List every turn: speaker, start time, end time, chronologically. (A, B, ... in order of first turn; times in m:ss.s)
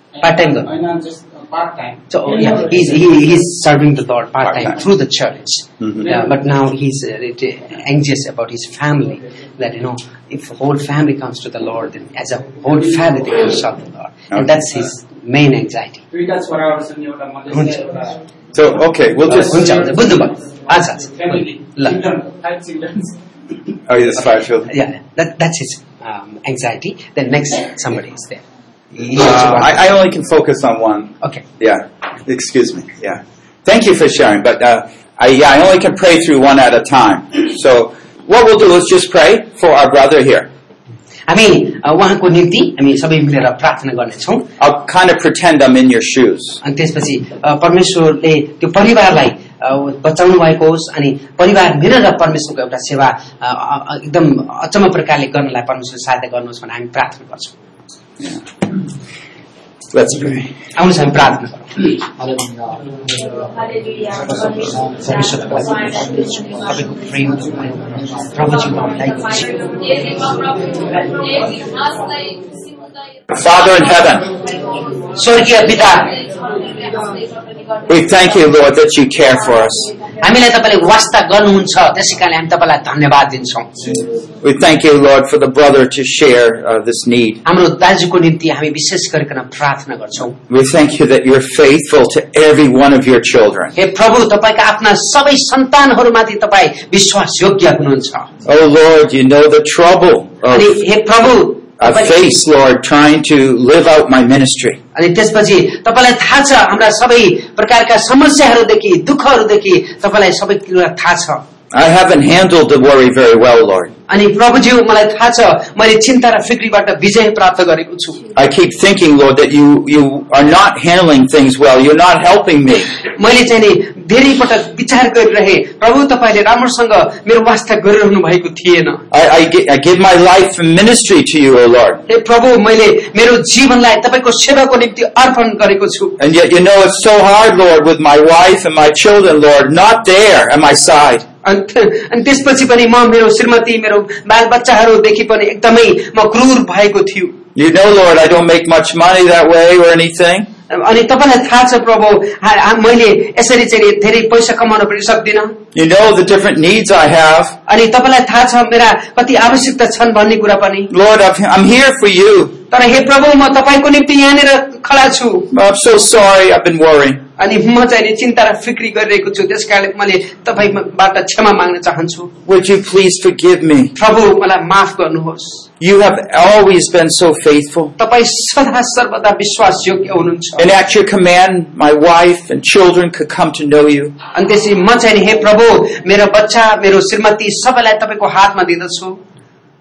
0:00.1-0:03.3 A
0:00.2-0:00.7 B
0:02.1-0:16.0 B
0:05.8-0:06.0 C
0:12.8-0:13.4 A
0:16.1-0:18.2 A
0:18.5-0:19.9 C
0:19.3-0:21.1 B
0:19.3-0:20.4 A
0:20.9-0:23.2 A
0:23.9-0:24.7 C
0:24.7-0:28.4 B
0:28.9-0:29.8 B
0:29.1-0:40.5 C
0:41.3-0:44.5 B
0:44.6-0:46.6 C
0:46.6-0:57.6 B
0:59.9-1:00.5 C
1:00.7-1:02.0 B
1:04.2-1:09.6 B
1:13.3-1:14.3 C
1:15.1-1:16.2 B
1:17.9-1:19.9 C
1:20.2-1:24.0 B
1:24.4-1:27.4 C
1:27.4-1:30.4 B
1:30.5-1:33.7 C
1:33.7-1:38.3 B
1:38.4-1:40.8 C
1:40.5-1:42.1 B
1:41.8-1:44.8 C
1:44.9-1:51.4 B
1:51.7-1:53.9 C
1:54.1-1:58.3 B
1:58.3-2:02.9 C
2:03.1-2:09.0 B
2:09.1-2:12.0 C
2:12.1-2:16.2 B
2:16.2-2:21.2 C
2:21.4-2:27.4 B
2:27.6-2:30.5 C
2:30.7-2:35.6 B
2:35.7-2:37.6 C
2:37.7-2:40.9 B
2:40.9-2:42.5 C
2:42.7-2:45.5 B
2:45.5-2:47.2 C
2:47.4-2:52.3 B
2:52.4-2:53.9 C
2:53.9-2:55.6 B
2:55.8-2:57.9 C
2:58.0-3:00.7 B
3:00.6-3:04.2 C
3:04.3-3:09.2 B